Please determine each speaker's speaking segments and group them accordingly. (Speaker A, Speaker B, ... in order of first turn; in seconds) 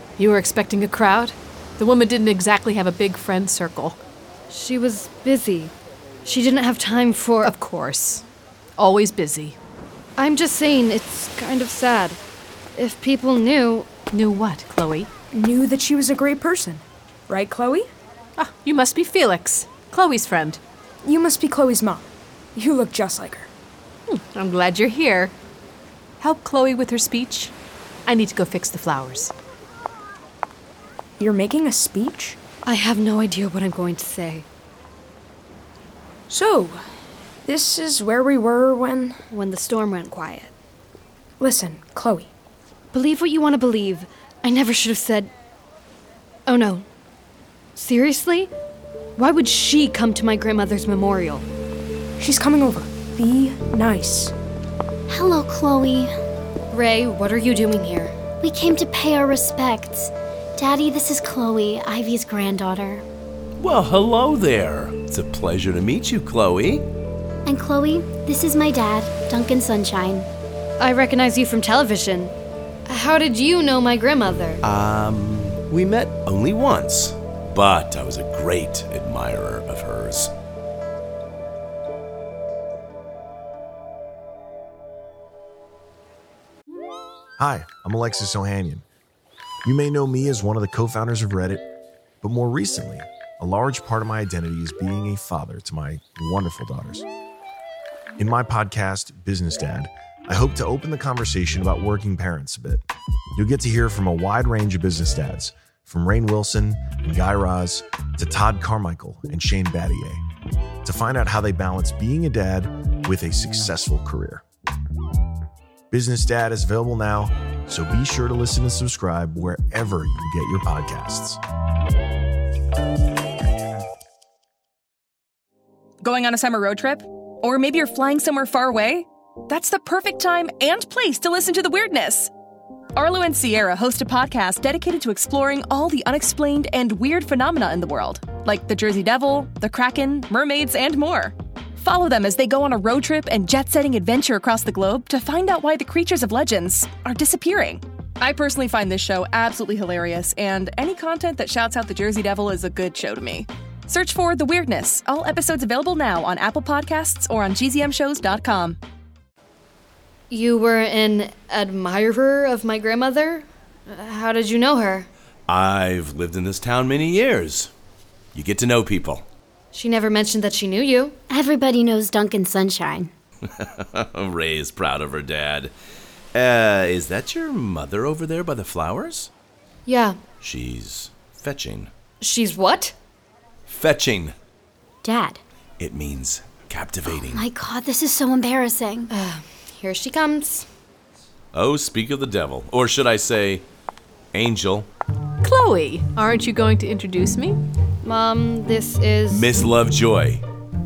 Speaker A: 0.2-4.0, 7.4-8.2, 8.8-9.6, 14.1-15.1, 18.4-20.6, 24.1-25.3, 26.2-27.5, 28.1-29.3, 195.4-197.6
Speaker B: 4.5-5.7, 6.2-7.5, 10.2-12.2, 12.7-14.0, 32.6-34.4, 39.3-40.5, 42.9-45.3, 46.5-46.9, 47.7-48.5, 49.1-51.5, 56.7-58.1, 70.8-72.3, 72.9-74.6, 160.3-165.1, 169.7-171.2, 179.8-180.2, 182.2-182.9, 189.1-190.7, 198.0-199.5
Speaker C: 15.3-17.9, 21.0-23.5, 31.2-32.4, 36.3-36.8, 37.4-39.2, 41.4-42.3, 52.2-54.3
Speaker D: 55.1-56.1, 58.4-63.0, 67.5-70.3, 171.3-173.1, 185.0-185.4, 187.1-189.1
Speaker E: 63.6-66.9, 74.6-80.3, 165.5-167.7, 168.3-169.2, 173.5-175.7, 176.3-179.3, 180.4-181.9, 183.7-184.3, 185.8-187.4, 191.5-193.6, 194.3-194.9, 199.3-200.4
Speaker F: 87.4-88.8, 89.6-91.6, 92.2-97.0, 98.2-102.8, 103.3-110.2, 110.8-114.4, 115.9-121.4
Speaker G: 126.0-132.3, 132.9-158.8